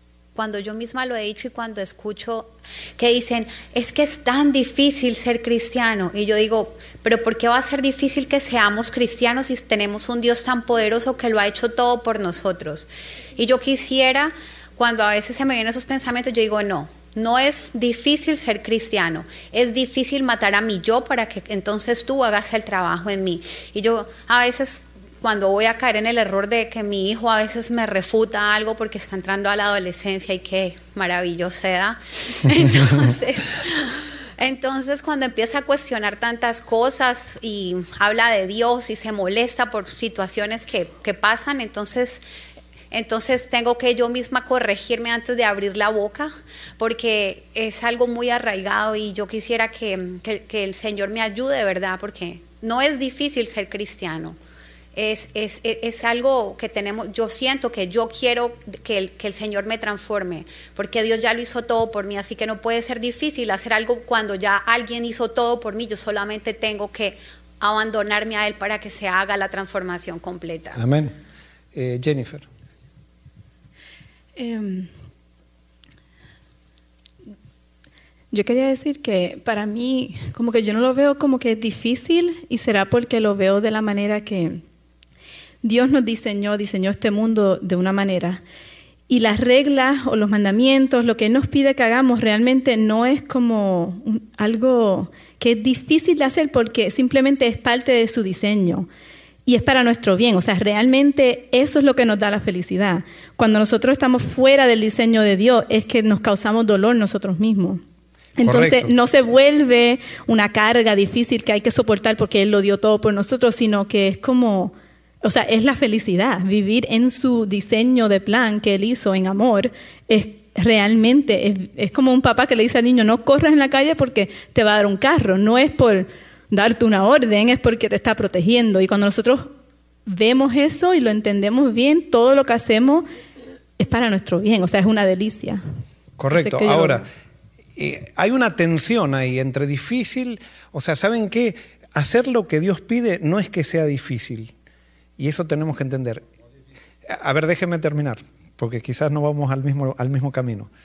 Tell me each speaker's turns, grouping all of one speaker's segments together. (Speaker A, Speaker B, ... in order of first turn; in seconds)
Speaker A: 0.3-42.2, 42.9-54.4, 55.0-70.8
Speaker B: 70.8-71.2, 71.7-72.5, 108.4-108.9, 136.2-137.1, 137.8-144.5, 145.2-146.3, 147.1-150.7
Speaker C: 74.4-74.9, 78.3-84.6, 85.6-88.4, 89.1-98.9, 99.5-107.8, 108.4-129.6, 130.1-133.1, 133.8-135.6, 136.3-137.1